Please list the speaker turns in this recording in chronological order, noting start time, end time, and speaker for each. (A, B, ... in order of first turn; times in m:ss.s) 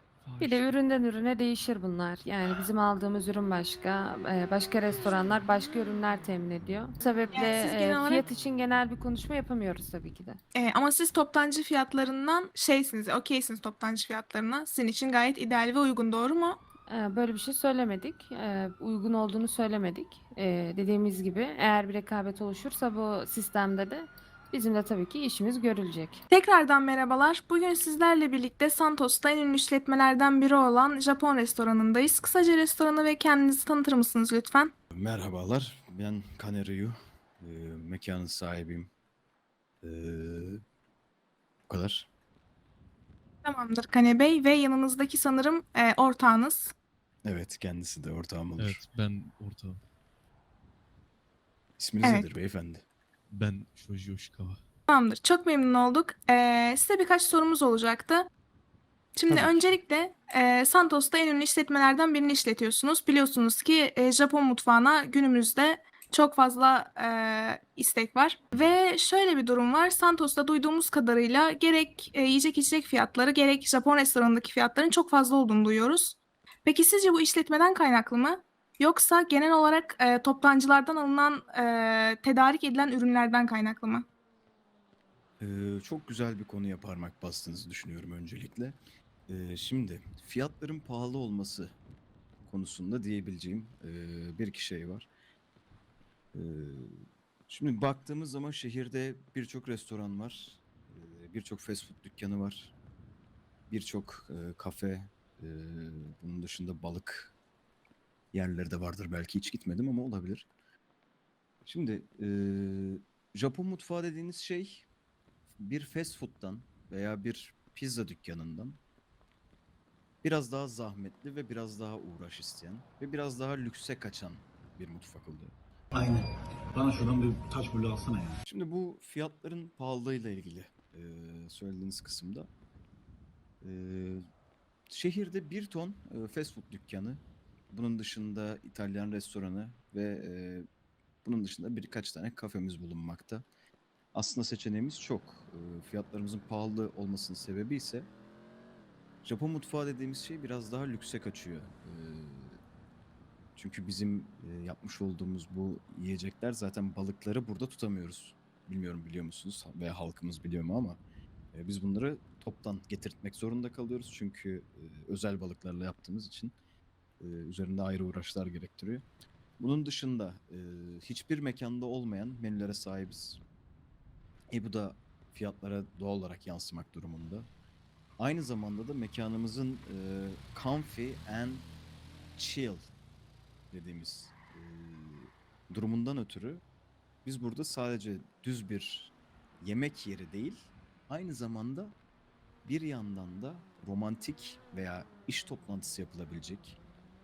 0:00.2-0:00.6 A
0:00.4-0:10.4 B
0:07.3-0:08.3 C
0:10.5-0:16.6 C
0:16.9-0:26.2 B
0:26.3-0:34.7 C
0:34.9-0:38.9 D
0:39.8-0:40.6 D
0:41.7-0:42.1 D
0:43.4-0:46.7 C
0:47.2-0:48.8 D
0:48.6-0:49.8 A
0:51.8-0:52.8 D
0:52.0-0:52.3 C
0:53.3-0:54.6 A
0:54.9-0:58.2 C
0:59.2-1:24.0 C
0:59.3-0:59.6 D
1:25.4-1:31.7 D
1:32.4-1:35.1 D
1:36.3-1:42.7 D
1:43.7-1:47.3 D
1:48.3-1:50.5 D
1:51.6-1:54.9 D
1:55.6-1:58.8 D
2:00.2-2:05.5 D
2:05.9-2:08.4 E
2:08.4-2:12.5 D
2:13.6-2:14.2 D
2:14.9-2:20.6 D
2:21.2-2:23.4 D
2:24.1-2:28.1 D
2:29.2-2:32.6 D
2:33.6-2:41.0 D
2:41.5-2:46.5 D
2:47.2-2:49.0 D
2:49.6-2:53.4 D
2:54.5-2:57.5 D
2:58.2-3:01.7 D
3:02.4-3:02.9 D
3:03.7-3:06.6 D
3:07.2-3:11.9 D
3:12.6-3:16.8 D